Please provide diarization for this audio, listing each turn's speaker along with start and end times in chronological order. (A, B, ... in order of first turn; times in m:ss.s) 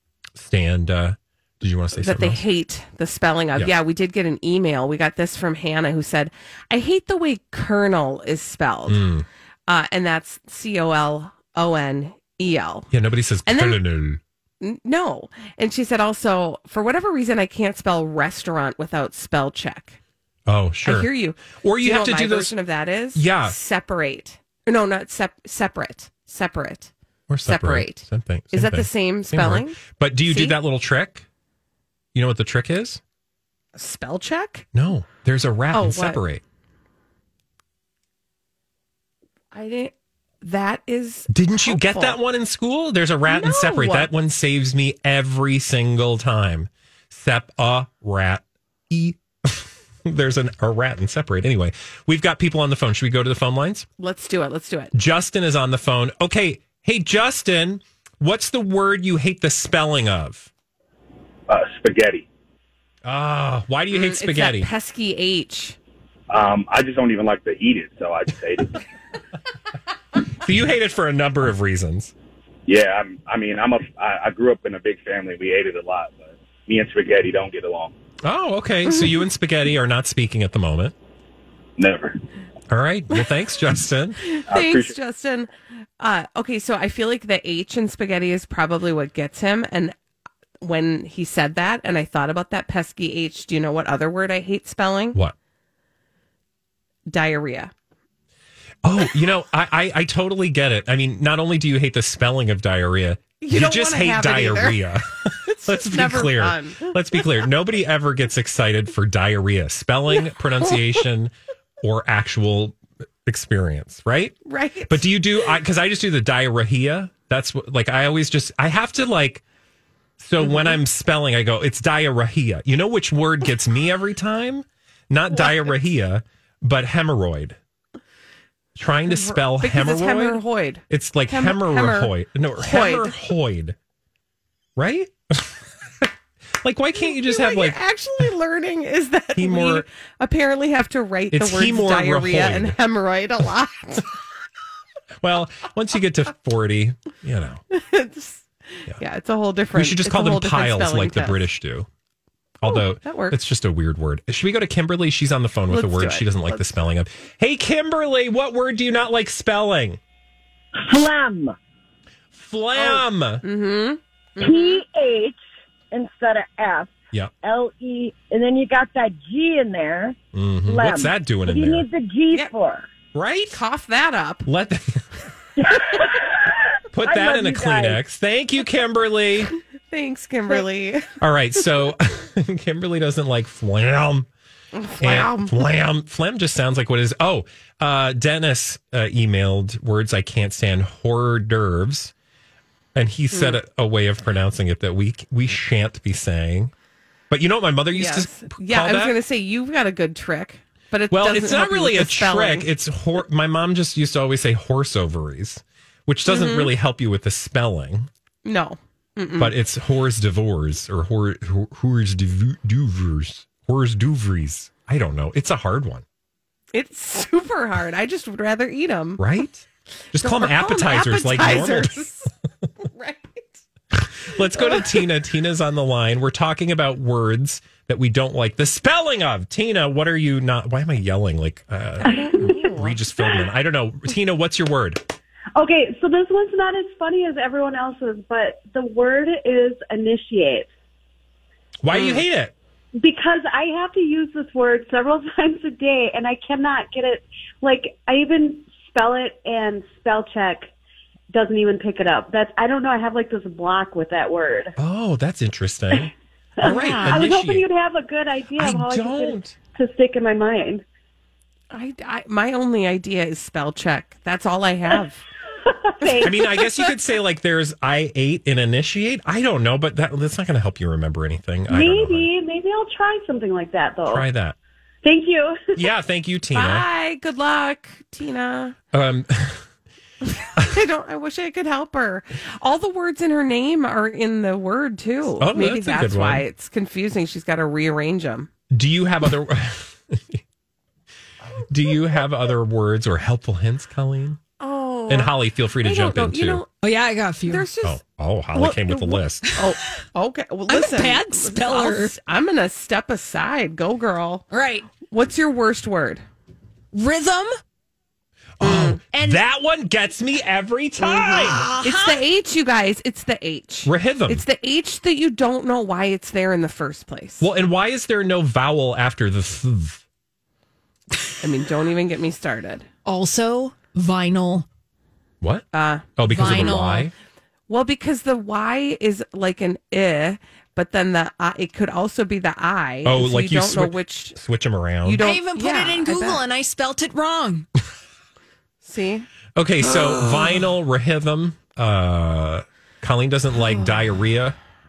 0:00.4-0:02.4 A
0:01.9-0:09.1 B
0:08.9-0:09.2 A
0:09.7-0:12.9 B
0:12.9-0:14.2 A
0:13.4-0:13.8 B
0:14.6-0:20.0 B
0:20.4-0:22.5 A
0:20.8-0:26.9 B
0:23.1-0:23.6 A
0:27.3-0:31.2 A
0:27.4-0:30.6 B
0:32.1-0:33.0 A
0:33.7-0:34.6 B
0:34.7-0:36.4 A
0:35.7-0:36.2 B
0:39.5-0:42.2 B
0:41.3-0:53.9 A
0:43.2-0:44.1 B
0:54.0-0:54.9 B
0:54.9-1:00.5 A
1:01.5-1:02.3 C
1:03.0-1:04.7 A
1:03.9-1:05.8 B
1:06.3-1:08.8 C
1:10.4-1:12.1 A
1:12.7-1:17.9 C
1:18.2-1:20.9 A
1:21.8-1:22.2 C
1:22.7-1:24.2 A
1:24.2-1:29.9 B
1:24.5-1:25.0 C
1:30.6-1:35.2 B
1:37.1-1:37.7 B
1:38.8-1:59.4 A
1:43.4-1:47.0 B
1:54.4-1:55.1 B
2:00.2-2:07.6 A
2:00.4-2:00.8 B
2:08.8-2:13.8 A
2:09.1-2:13.1 B
2:14.8-2:17.8 A
2:17.2-2:24.1 B
2:19.3-2:19.8 A
2:21.3-2:22.8 A
2:25.2-2:27.6 A
2:27.7-2:31.4 B
2:29.7-2:31.9 A
2:32.6-2:33.4 B
2:32.6-2:40.0 A
2:35.7-2:36.7 B
2:40.8-2:41.6 D
2:42.3-2:43.4 A
2:42.7-2:44.8 B
2:44.4-2:45.4 D
2:45.9-2:52.9 D
2:50.3-2:51.8 A
2:53.1-2:53.6 A
2:53.5-2:54.5 B
2:54.4-2:55.0 A
2:55.6-2:58.0 D
2:56.9-2:59.5 A
2:59.9-3:01.2 B
3:01.2-3:04.3 A
3:04.7-3:05.6 B
3:05.0-3:12.1 A
3:12.9-3:16.7 A
3:13.3-3:13.6 B
3:17.3-3:19.1 A
3:17.9-3:22.7 B
3:21.1-3:28.1 A
3:26.3-3:26.7 B
3:28.4-3:29.5 B
3:29.4-3:36.0 A
3:36.7-3:39.4 B
3:39.2-3:42.0 A
3:40.2-3:42.3 B
3:42.8-3:43.6 B
3:44.0-3:55.0 A
3:44.5-3:45.0 B
3:52.0-3:53.0 B
3:52.1-3:52.6 E
3:55.5-4:00.7 E
4:01.8-4:02.5 A
4:01.9-4:02.2 B
4:03.0-4:10.7 E
4:11.3-4:14.7 E
4:14.8-4:17.6 A
4:16.6-4:20.8 E
4:16.6-4:17.2 B
4:18.6-4:19.5 A
4:21.7-4:25.2 B
4:25.8-4:26.5 E
4:26.0-4:26.9 B
4:26.2-4:32.3 A
4:31.7-4:34.3 E
4:34.0-4:34.6 A
4:35.0-4:35.9 E
4:35.7-4:36.9 A
4:36.5-4:38.8 B
4:38.9-4:39.6 A
4:40.5-4:48.5 B
4:45.4-4:46.4 A
4:48.7-4:50.4 A
4:51.7-4:54.4 A
4:54.6-4:56.7 B
4:55.1-4:56.6 A
4:56.8-4:57.7 F
4:57.4-4:58.0 B
4:57.8-4:59.4 A
4:58.5-5:06.2 B
4:59.4-4:59.7 F
5:00.7-5:02.2 F
5:04.5-5:04.9 F
5:06.9-5:07.5 F
5:08.6-5:11.7 A
5:08.6-5:09.0 B
5:09.1-5:09.4 F
5:11.1-5:12.2 F
5:11.3-5:17.5 B
5:13.8-5:14.4 A
5:17.4-5:20.0 A
5:21.4-5:22.9 B
5:23.0-5:24.6 F
5:25.4-5:25.6 A
5:25.7-5:27.0 B
5:26.2-5:27.1 A
5:26.3-5:27.1 F
5:27.7-5:34.4 B
5:33.0-5:35.2 A
5:35.0-5:36.4 B
5:35.2-5:37.6 F
5:38.8-5:39.3 B
5:39.5-5:44.6 A